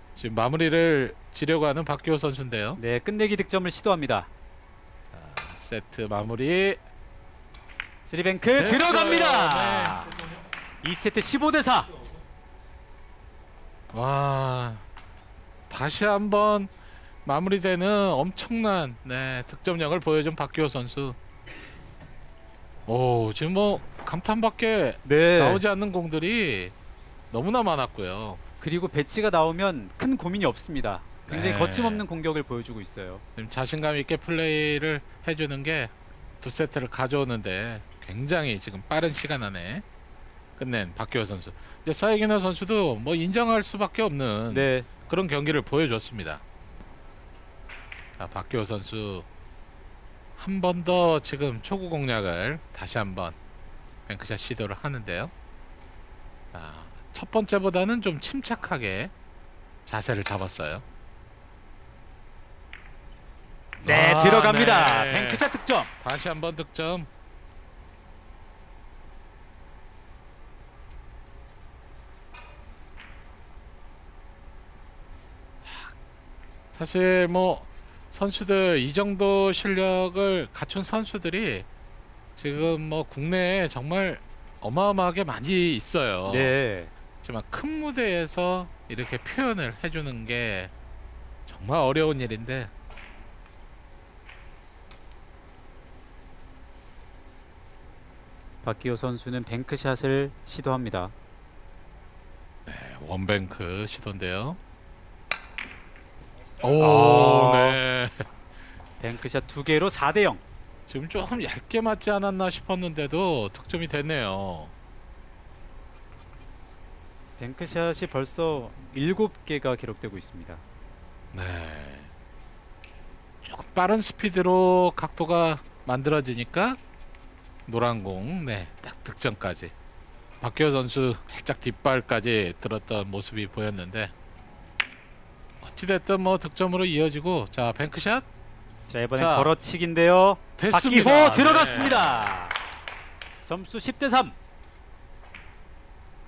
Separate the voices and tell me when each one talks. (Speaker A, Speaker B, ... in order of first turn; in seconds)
Speaker A: 0.2-2.8, 5.1-6.8, 8.6-10.0, 13.9-14.8, 15.7-16.7, 17.2-21.2, 22.9-26.7, 27.3-28.4, 31.3-32.0, 33.4-39.9, 40.6-46.4, 48.2-49.3, 50.4-53.4, 54.1-55.3, 56.5-59.1, 59.9-60.8, 63.8-65.4, 66.0-67.1, 75.6-76.0, 76.7-81.7, 82.4-86.5, 87.2-90.7, 91.5-92.7, 102.7-104.6, 106.6-108.3, 110.9-114.7, 121.3-122.1, 123.4-126.8, 127.7-129.7, 130.4-134.1, 135.6-138.3, 139.2-139.5, 140.6-142.3
Speaker B: 2.8-4.3, 8.1-10.2, 10.8-11.9, 25.1-25.6, 28.6-33.2, 44.5-44.9, 63.8-65.9, 86.3-86.9, 98.6-101.1, 106.8-107.8, 109.0-110.4, 117.4-120.6, 138.9-142.6, 143.4-144.4